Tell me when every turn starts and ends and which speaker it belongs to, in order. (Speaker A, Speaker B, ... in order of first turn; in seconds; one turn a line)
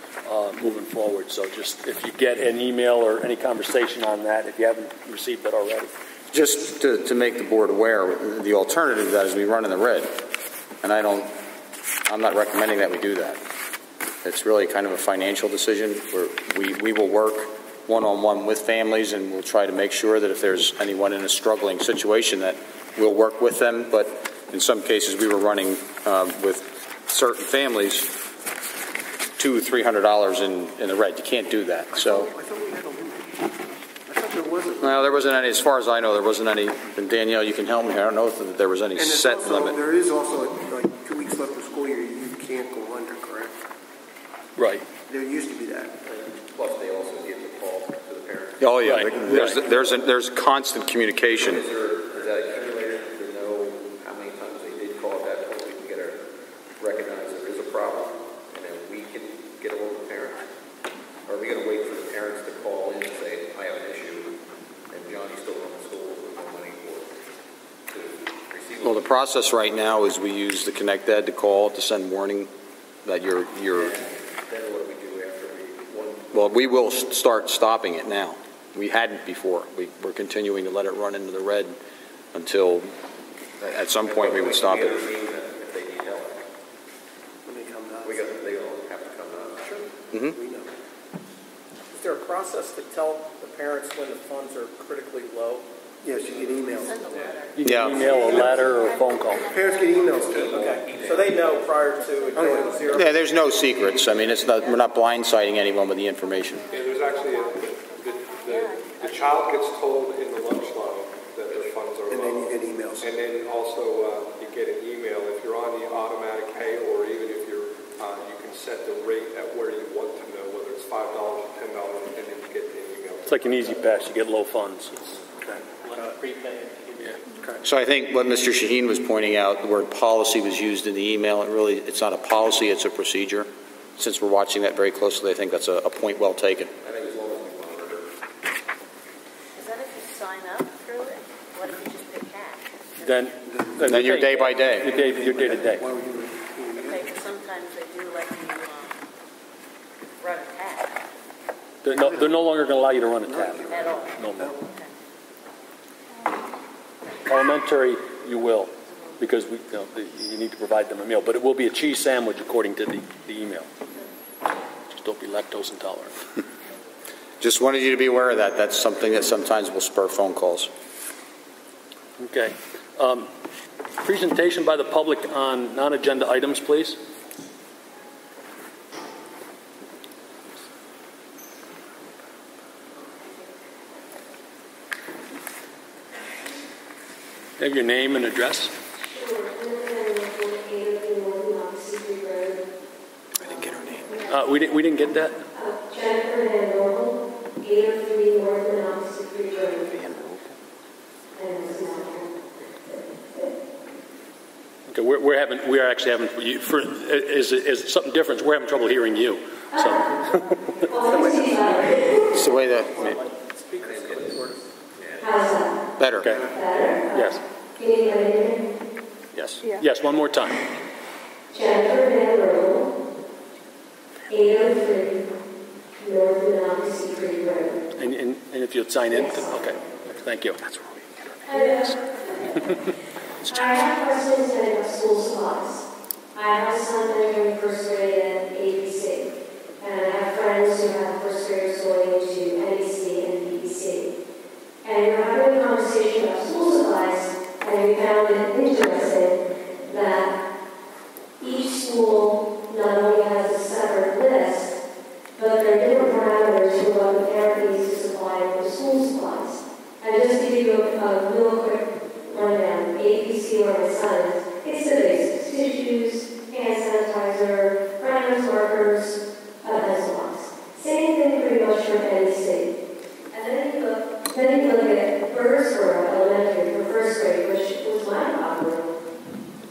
Speaker A: 0.2-5.9
Speaker B: 6.3-10.1
Speaker B: 10.8-11.3
Speaker B: 12.1-13.4
Speaker B: 14.2-28.1
Speaker B: 29.4-32.3
Speaker C: 31.9-35.2
Speaker B: 34.8-39.8
Speaker C: 39.0-43.5
Speaker A: 44.6-44.9
Speaker C: 45.1-46.0
Speaker D: 46.1-48.7
Speaker B: 48.6-51.7
Speaker A: 48.8-49.6
Speaker D: 49.4-50.0
Speaker D: 51.4-56.2
Speaker D: 56.8-60.5
Speaker D: 61.3-64.3
Speaker D: 64.9-67.1
Speaker D: 67.9-69.1
Speaker B: 68.8-72.5
Speaker B: 73.0-74.0
Speaker D: 73.7-76.8
Speaker B: 76.3-81.8
Speaker B: 82.3-82.9
Speaker B: 83.6-85.0
Speaker D: 84.0-86.4
Speaker C: 87.5-88.3
Speaker D: 88.0-89.7
Speaker C: 89.6-90.7
Speaker B: 90.1-90.4
Speaker E: 91.9-95.7
Speaker C: 96.0-97.4
Speaker F: 96.4-100.7
Speaker A: 97.6-99.5
Speaker B: 97.6-98.1
Speaker C: 98.0-98.6
Speaker D: 99.3-101.9
Speaker C: 99.4-100.8
Speaker E: 100.4-103.1
Speaker F: 102.0-103.1
Speaker C: 102.3-102.9
Speaker B: 102.9-106.7
Speaker F: 104.3-104.8
Speaker G: 106.7-124.1
Speaker D: 106.8-107.7
Speaker F: 108.5-109.5
Speaker C: 112.1-113.1
Speaker A: 123.3-125.6
Speaker E: 125.8-127.5
Speaker B: 127.6-136.7
Speaker D: 136.8-138.1
Speaker F: 139.6-143.3
Speaker A: 143.0-145.8
Speaker C: 143.5-147.1
Speaker B: 143.8-144.9
Speaker F: 146.8-149.0
Speaker F: 150.2-151.0
Speaker A: 151.8-154.5
Speaker C: 151.9-152.2
Speaker C: 153.2-154.6
Speaker F: 153.7-154.9
Speaker A: 157.3-163.7
Speaker A: 164.9-166.2
Speaker B: 167.4-170.7
Speaker A: 172.2-173.3
Speaker A: 174.0-177.0
Speaker A: 187.6-188.7
Speaker H: 189.0-192.6
Speaker B: 193.4-194.2
Speaker A: 194.3-195.4
Speaker H: 195.5-199.9
Speaker B: 199.9-200.4
Speaker H: 201.4-202.3
Speaker A: 204.9-210.7
Speaker H: 209.7-210.1
Speaker H: 210.8-212.5
Speaker E: 211.1-211.9
Speaker B: 212.3-213.2
Speaker E: 213.0-214.6
Speaker D: 213.8-215.5
Speaker H: 215.2-218.7
Speaker B: 216.0-216.4
Speaker A: 216.2-216.4
Speaker A: 217.1-217.4
Speaker B: 219.3-219.6
Speaker A: 219.8-220.6
Speaker H: 221.5-222.9
Speaker H: 224.3-225.2
Speaker H: 226.0-227.8
Speaker A: 228.0-230.6
Speaker H: 229.1-229.6
Speaker B: 230.7-231.9
Speaker H: 231.5-232.8
Speaker H: 233.5-244.1
Speaker H: 244.8-250.4
Speaker H: 251.4-254.8
Speaker H: 255.4-272.8
Speaker H: 273.3-278.9